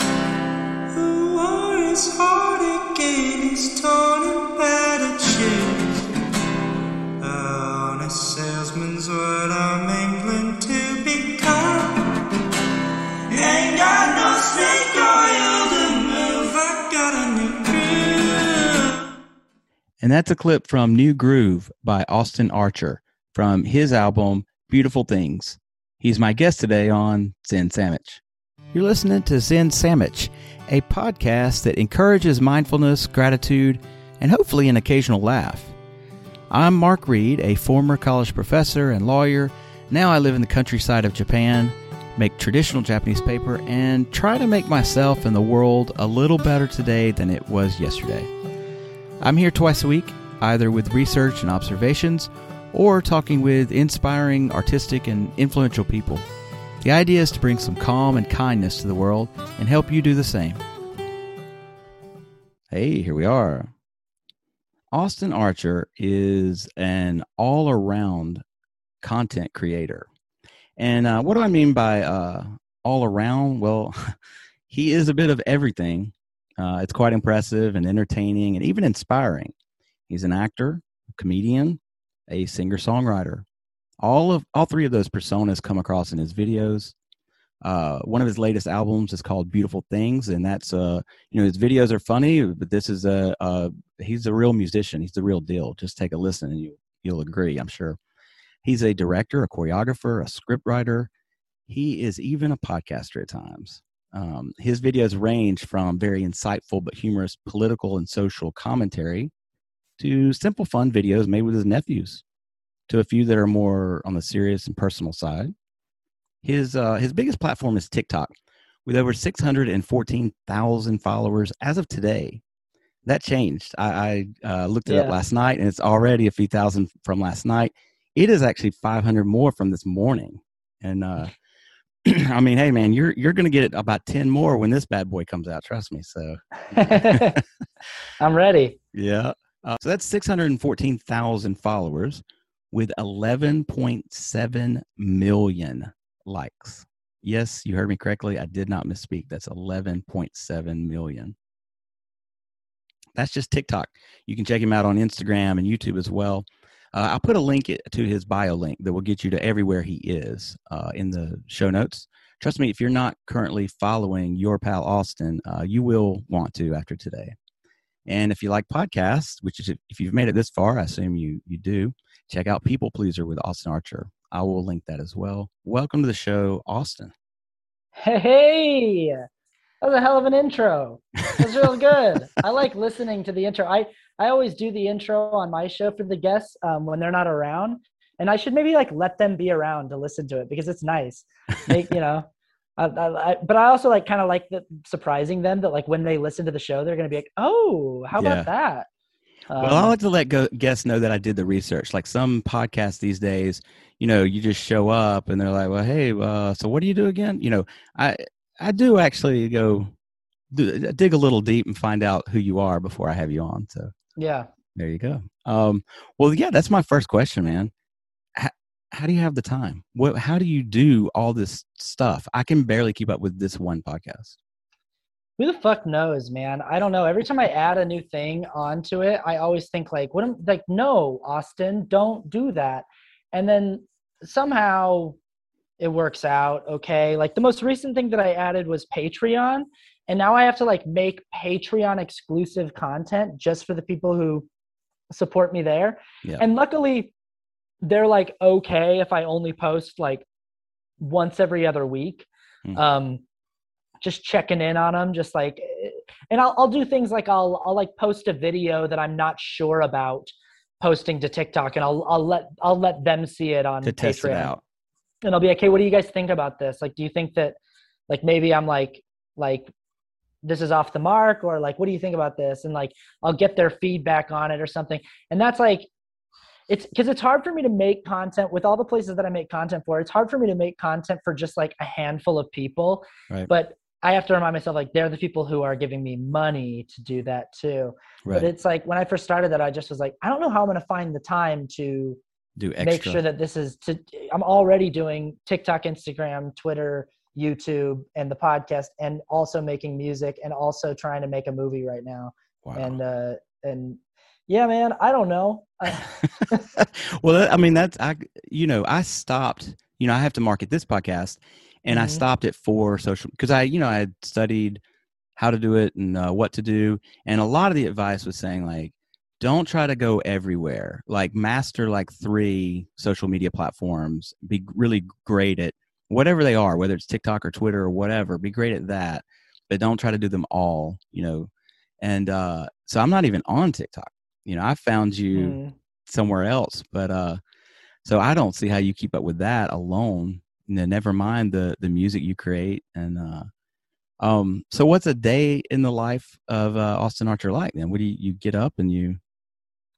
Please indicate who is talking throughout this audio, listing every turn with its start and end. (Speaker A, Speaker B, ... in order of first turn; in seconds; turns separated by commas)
Speaker A: 0.9-6.0, Speaker A: 7.2-12.1, Speaker A: 13.3-19.0, Speaker B: 20.0-28.2, Speaker B: 28.7-35.8, Speaker B: 36.5-48.3, Speaker B: 49.2-56.2, Speaker B: 56.8-60.6, Speaker B: 62.7-63.7, Speaker B: 64.9-68.4, Speaker B: 69.0-70.1, Speaker B: 70.8-74.2, Speaker B: 74.7-79.5, Speaker B: 80.1-83.5, Speaker B: 84.0-87.0, Speaker B: 87.6-98.0, Speaker B: 98.6-101.1, Speaker B: 101.7-109.3, Speaker B: 110.0-112.2, Speaker B: 112.9-115.5, Speaker B: 116.4-118.3, Speaker B: 118.9-122.4, Speaker B: 123.0-131.3, Speaker C: 124.9-125.2, Speaker B: 132.0-137.4, Speaker C: 136.6-137.4, Speaker C: 138.2-138.8, Speaker B: 138.9-151.4, Speaker B: 153.2-167.3, Speaker B: 168.1-177.1, Speaker C: 178.0-179.3, Speaker C: 179.8-198.9, Speaker B: 198.2-198.5, Speaker C: 199.5-199.9, Speaker B: 199.6-209.9, Speaker B: 210.5-213.9, Speaker C: 214.2-214.5, Speaker B: 214.8-217.7, Speaker B: 218.3-224.4, Speaker C: 225.4-235.2, Speaker C: 235.8-244.5, Speaker C: 245.1-247.1, Speaker C: 247.8-250.2, Speaker C: 251.0-253.2, Speaker C: 254.0-264.5, Speaker B: 263.8-264.6, Speaker C: 265.2-267.6, Speaker C: 268.1-269.7, Speaker C: 270.4-275.9, Speaker C: 276.7-292.2, Speaker B: 292.6-293.2, Speaker C: 292.8-306.6, Speaker B: 302.6-303.0, Speaker B: 306.4-314.8, Speaker C: 311.9-312.2, Speaker B: 315.4-331.5, Speaker B: 332.0-337.4, Speaker C: 335.3-335.7, Speaker B: 338.1-343.5, Speaker B: 344.2-349.2